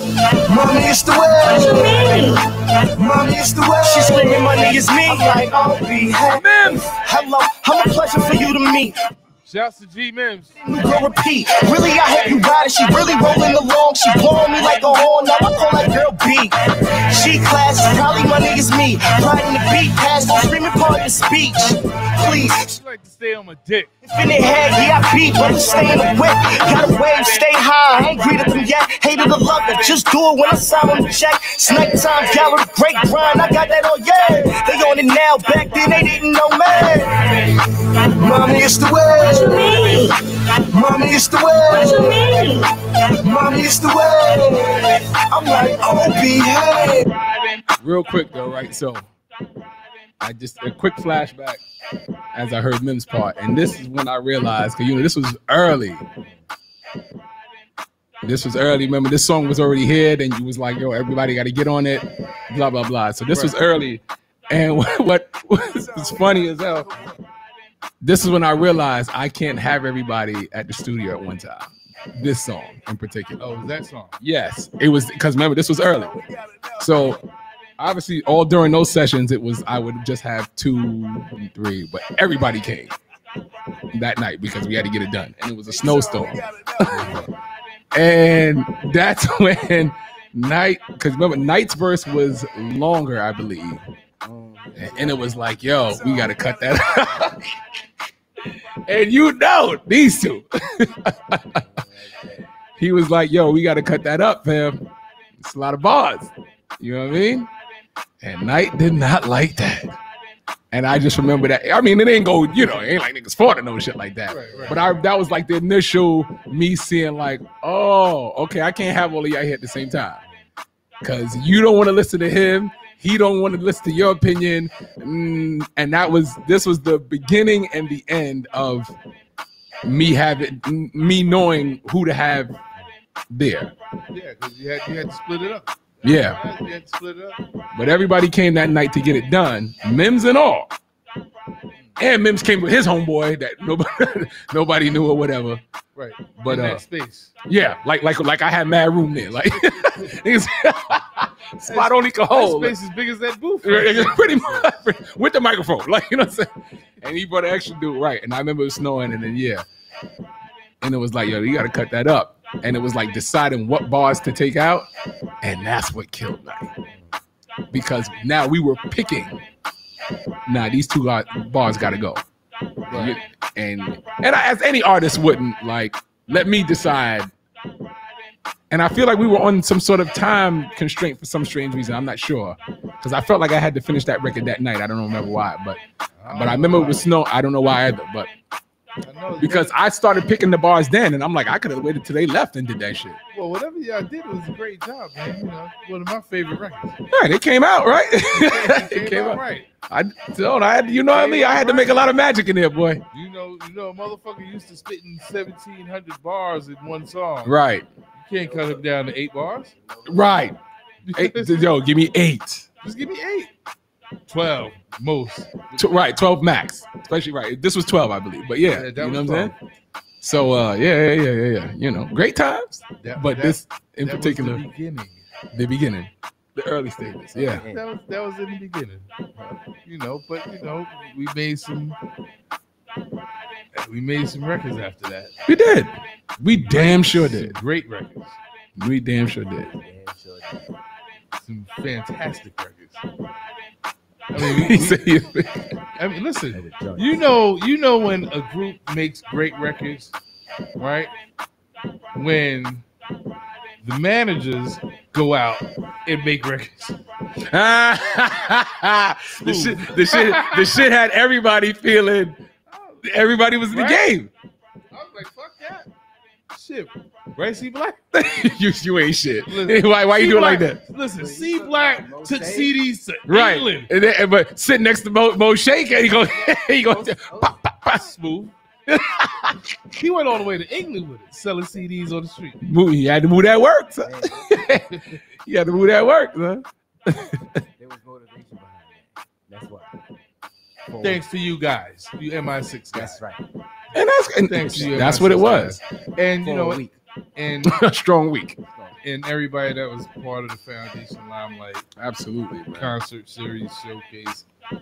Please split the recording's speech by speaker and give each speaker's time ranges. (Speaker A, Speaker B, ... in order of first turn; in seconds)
Speaker A: 0.5-2.3, 3.0-5.4, 38.2-39.8, 40.7-42.2, 43.2-44.8, 45.3-47.0
Speaker B: 1.4-2.3, 3.8-9.0, 10.6-22.6, 24.0-37.2
Speaker C: 6.3-6.8, 47.8-49.1, 50.2-51.6, 52.3-56.0, 58.2-66.9, 68.0-73.5, 74.2-76.2, 76.8-77.2, 77.8-82.9, 83.9-87.2, 87.9-93.8, 94.8-97.4, 98.9-101.4, 102.8-104.8, 105.4-107.5, 108.2-110.0, 110.7-120.2, 121.0-128.9, 129.8-132.5, 133.3-133.7, 136.0-136.4, 137.7-140.7, 142.0-145.6, 146.4-146.8, 147.4-152.7, 153.6-156.5, 157.0-159.6, 160.8-164.9, 165.4-166.7, 167.7-169.4, 170.4-172.2, 172.9-177.3, 178.7-188.3, 189.4-193.2, 197.1-203.0, 207.4-207.8, 210.1-210.6, 211.1-212.7, 215.8-219.5, 220.2-224.6, 225.5-227.6, 235.5-237.5, 238.8-239.7, 244.3-245.7, 257.5-262.4, 263.0-264.3, 268.1-270.8, 273.3-278.0, 278.9-279.3, 282.6-284.9, 285.4-287.2, 293.9-295.8, 297.6-298.6, 301.9-302.9
Speaker D: 9.4-10.5, 22.6-23.9, 63.3-63.6, 73.4-74.1, 86.9-87.2, 112.5-112.8, 114.3-115.0, 134.1-137.4, 145.9-147.3, 151.7-154.7, 172.9-173.2, 186.2-187.1, 189.0-189.7, 193.3-196.9, 198.3-199.7, 201.1-202.1, 203.1-207.6, 208.2-209.7, 211.0-211.8, 212.8-213.5, 214.3-216.1, 218.7-219.5, 223.0-225.2, 227.5-229.1, 229.8-232.0, 233.8-235.3, 236.4-238.4, 241.4-243.0, 244.3-245.0, 246.0-250.1, 250.8-251.1, 252.1-252.8, 253.8-256.9, 259.4-260.8, 262.7-264.2, 264.9-265.9, 266.5-268.0, 269.5-273.9, 277.9-278.5, 279.9-282.6, 284.9-285.1, 291.0-293.2, 294.4-297.8, 299.0-301.9, 302.7-304.4
Speaker E: 94.2-95.6, 101.5-102.4, 120.0-120.4, 166.8-167.1, 208.4-209.0, 209.7-210.5, 227.3-227.8, 229.3-229.7, 239.7-240.8, 246.5-247.3, 271.1-272.8, 276.9-277.5, 284.0-284.5, 287.8-289.9, 290.9-291.2, 292.9-293.4, 296.4-296.9, 298.6-299.0